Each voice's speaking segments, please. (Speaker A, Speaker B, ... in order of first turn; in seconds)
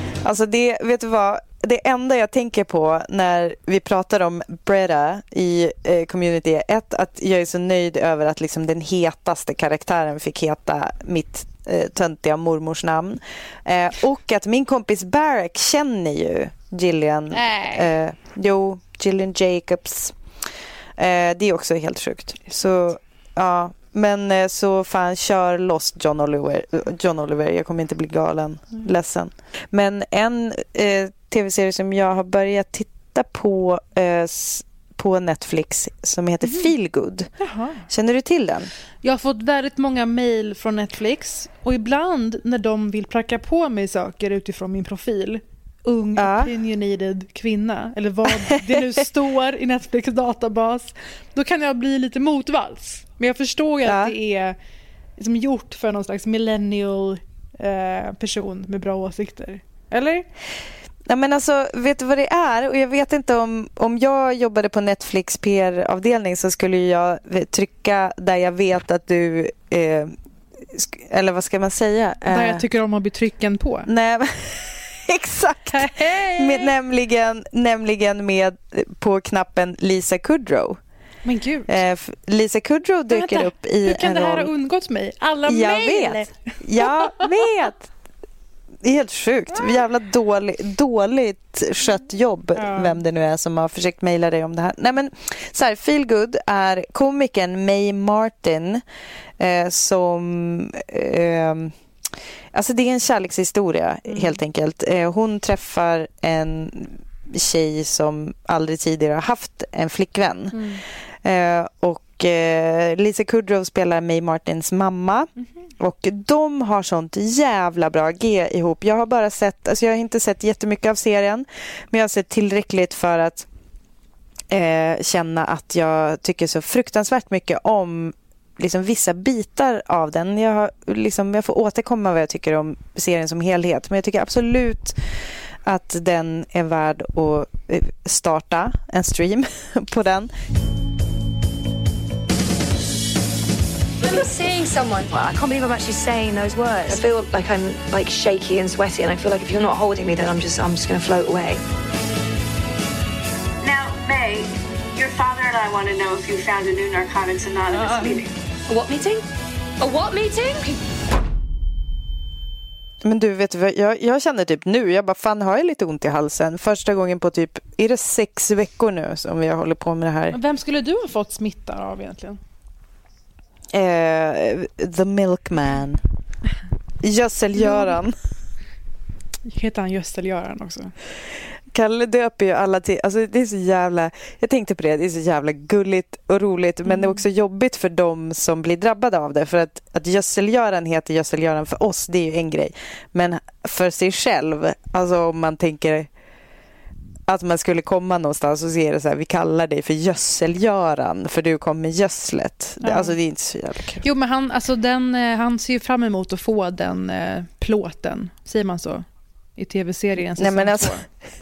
Speaker A: 0.2-20.1, 21.0-37.3, 37.9-38.7, 46.2-46.5, 48.6-48.8, 53.8-54.1, 61.0-72.6, 73.8-80.8, 81.7-84.5, 85.5-87.9, 88.8-98.8, 99.4-101.7, 102.5-110.6, 111.2-123.5, 124.5-135.0, 135.6-140.3, 163.0-170.4, 173.7-176.0, 177.0-178.1, 181.7-196.1, 197.3-204.0, 210.2-211.1
Speaker B: 17.3-17.9, 36.4-36.7, 37.4-37.8, 39.0-54.6, 55.2-60.3, 72.3-73.9, 75.7-76.7, 81.2-81.8, 83.1-87.2, 92.5-93.0, 104.1-104.4, 110.5-110.8, 170.3-172.4, 177.6-177.9, 179.4-180.9, 186.8-187.2, 202.8-203.1, 204.0-209.1, 209.6-211.0
Speaker C: 144.0-151.6, 158.7-159.2, 159.8-160.5
Speaker D: 153.6-158.3